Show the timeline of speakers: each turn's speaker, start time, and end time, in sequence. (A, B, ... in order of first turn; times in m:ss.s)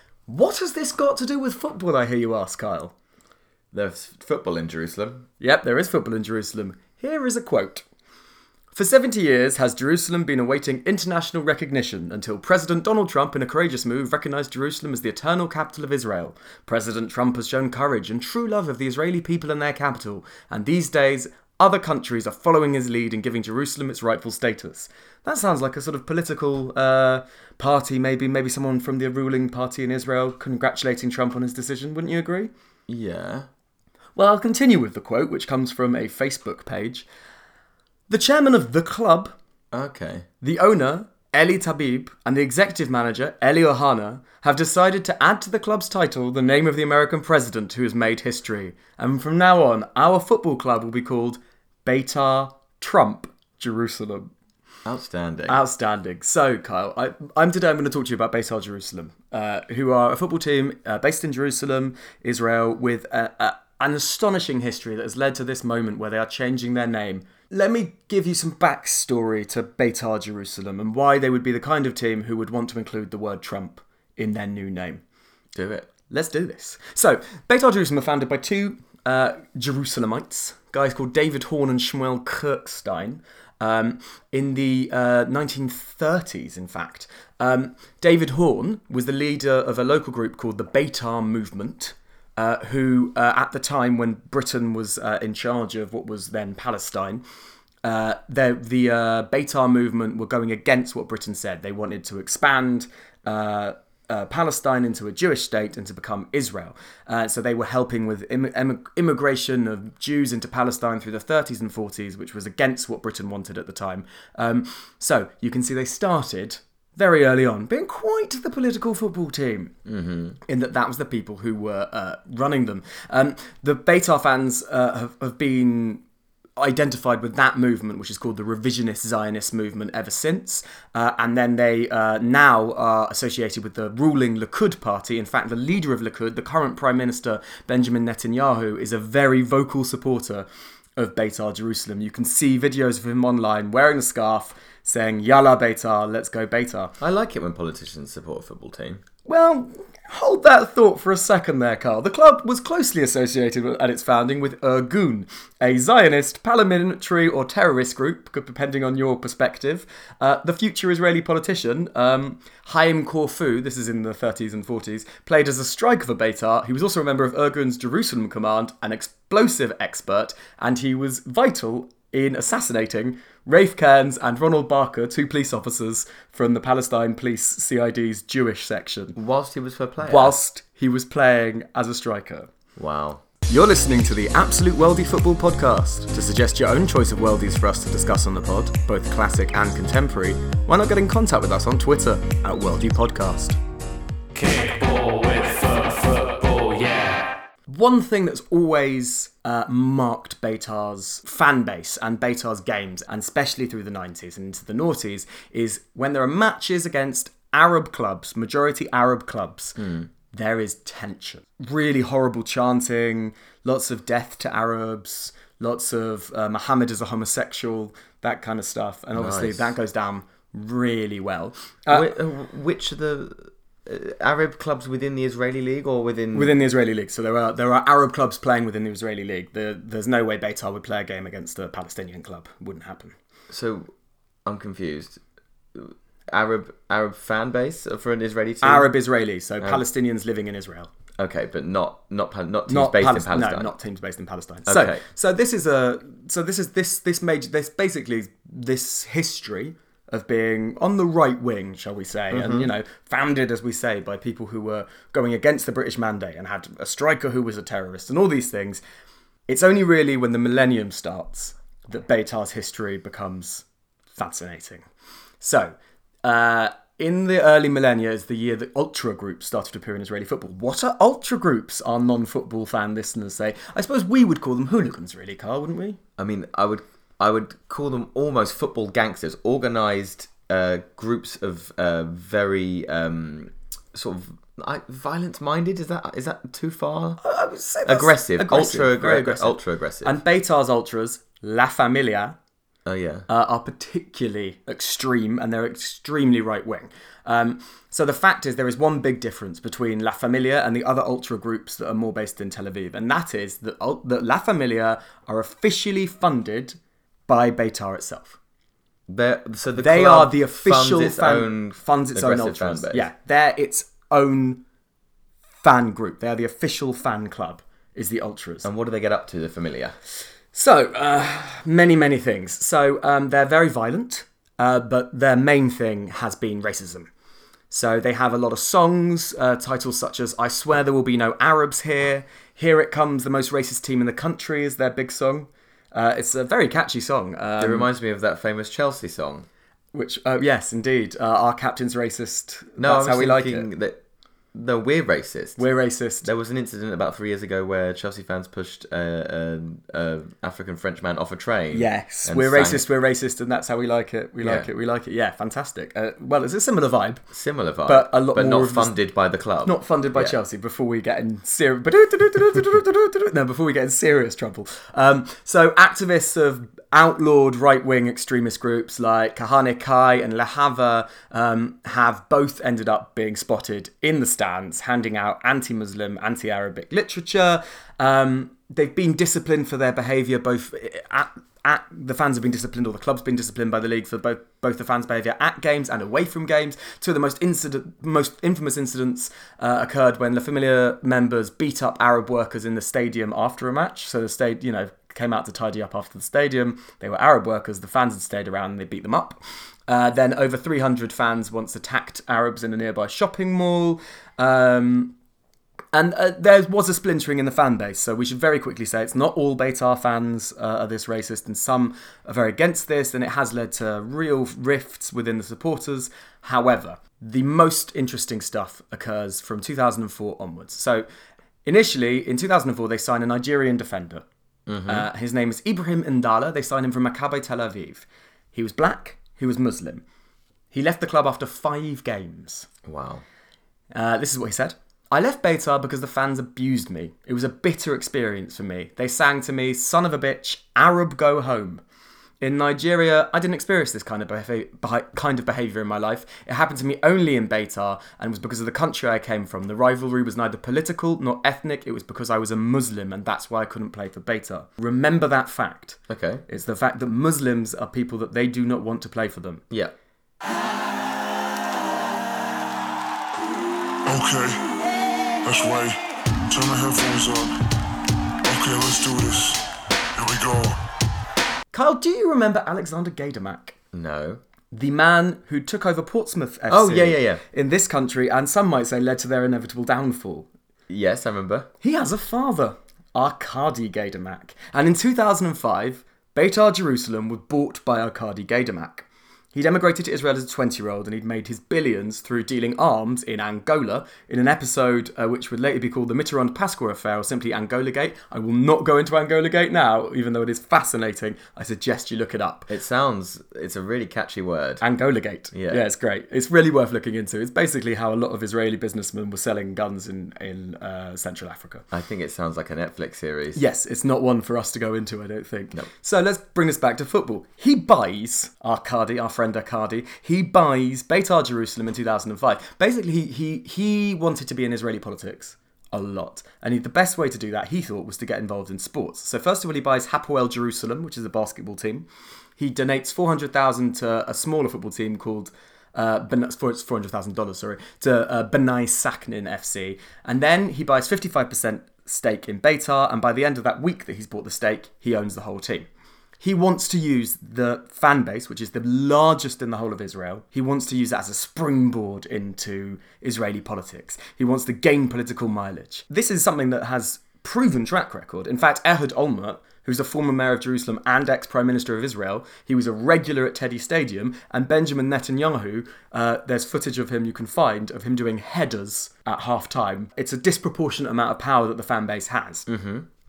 0:00.3-0:02.9 A
0:03.7-0:05.2 B
0:05.4-0:07.8 A
0:08.7-0:32.5 A
0:32.9-0:33.5 B
0:34.2-0:37.1 A
0:38.1-0:39.3 A
0:39.7-0:40.3 B
0:40.4-0:54.3 A
0:54.8-0:55.6 B
0:55.5-1:15.0 A
1:15.5-1:15.9 B
1:16.1-1:37.2 A
1:37.8-1:59.7 A
1:59.8-2:00.4 B
2:00.4-2:06.0 A
2:06.6-2:26.9 A
2:27.0-2:29.0 B
2:29.2-2:59.2 A
2:59.1-3:00.3 B
3:00.0-3:02.5 A
3:02.8-3:03.2 B
3:03.5-3:13.6 A
3:14.3-3:17.3 C
3:17.7-3:42.1 A
3:29.8-3:30.1 B
3:39.2-3:39.7 B
3:41.9-3:46.5 B
3:46.3-3:53.1 A
3:53.5-3:53.9 B
3:54.4-3:55.2 B
3:55.7-3:58.9 B
3:58.6-4:00.9 A
4:01.2-4:03.7 B
4:02.7-4:18.8 A
4:04.7-4:05.0 B
4:12.3-4:12.7 B
4:19.5-4:23.6 A
4:24.1-4:24.8 A
4:25.4-4:36.0 A
4:36.2-4:47.2 B
4:47.2-4:52.4 A
4:47.8-4:50.2 B
4:52.8-4:53.3 B
4:53.3-5:06.8 A
5:07.3-5:08.4 A
5:09.1-5:13.1 B
5:09.8-5:14.6 A
5:15.6-5:18.6 A
5:18.6-5:20.0 B
5:20.5-5:27.1 A
5:27.7-5:37.9 A
5:37.6-5:39.5 B
5:39.9-5:43.7 A
5:42.8-5:44.0 B
5:44.5-5:45.6 B
5:45.6-5:46.3 A
5:46.2-5:52.8 B
5:51.7-5:57.2 A
5:54.4-5:54.7 B
5:57.3-6:00.4 B
5:57.8-5:59.0 A
5:59.6-6:45.1 A
6:45.9-7:01.0 A
7:01.6-7:04.2 A
7:04.7-7:05.0 B
7:04.8-7:10.0 A
7:10.7-7:12.7 A
7:12.8-7:13.2 B
7:13.9-7:21.8 A
7:22.4-7:39.6 A
7:36.1-7:36.4 B
7:44.0-7:44.6 D
7:45.4-7:46.0 D
7:46.5-7:47.6 D
7:48.4-7:49.6 D
7:50.2-7:50.8 D
7:51.7-7:53.8 A
7:53.9-7:54.4 B
7:54.7-8:00.5 A
7:56.7-7:57.4 B
8:00.9-8:01.7 B
8:01.8-8:22.7 A
8:22.7-8:24.8 B
8:24.8-8:31.8 A
8:25.5-8:25.8 B
8:31.9-8:33.6 B
8:33.5-8:52.0 A
8:52.6-9:05.9 A
9:06.4-9:32.7 A
9:32.7-9:33.0 B